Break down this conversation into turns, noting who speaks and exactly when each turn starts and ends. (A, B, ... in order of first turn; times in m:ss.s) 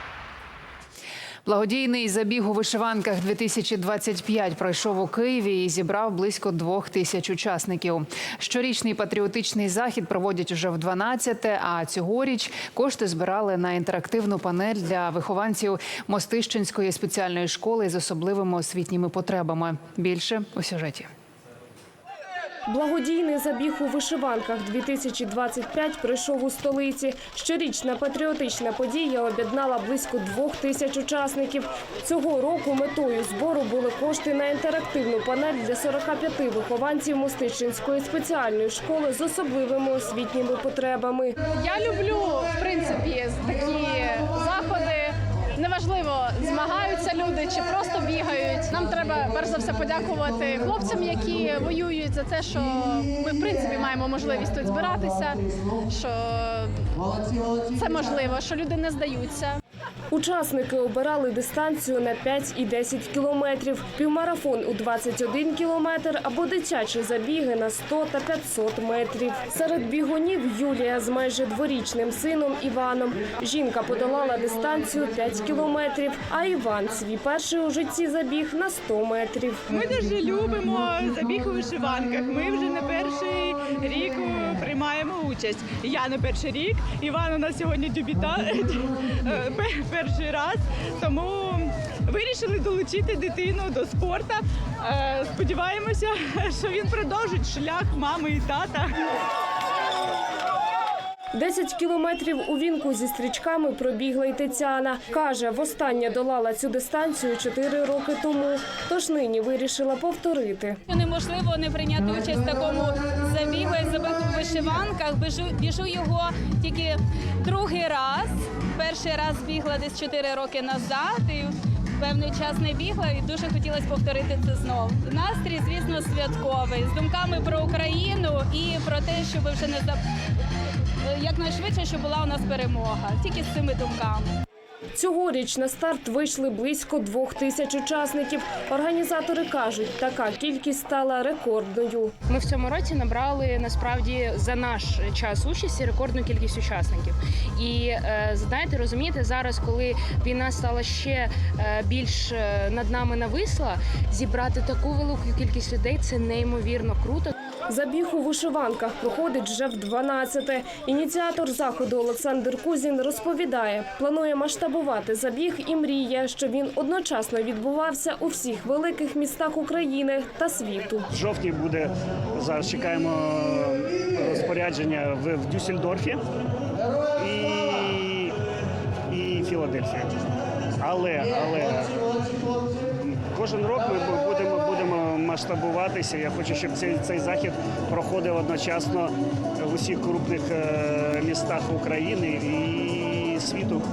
0:01.4-0:21.1 A
0:22.7-0:41.4 B
0:41.5-0:56.7 C
0:57.7-0:59.6 C
1:00.1-1:19.7 B
1:19.7-1:38.9 D
1:41.3-1:50.8 B
1:50.9-2:10.0 E
2:11.1-2:14.3 E
2:15.0-2:22.1 B
2:22.3-2:37.3 F
2:37.7-2:51.1 B
2:51.1-2:51.9 G
2:52.4-2:56.2 G
2:57.2-2:58.3 G
2:59.1-3:00.1 G
3:00.8-3:01.9 G
3:03.1-3:09.1 G
3:09.6-3:13.8 G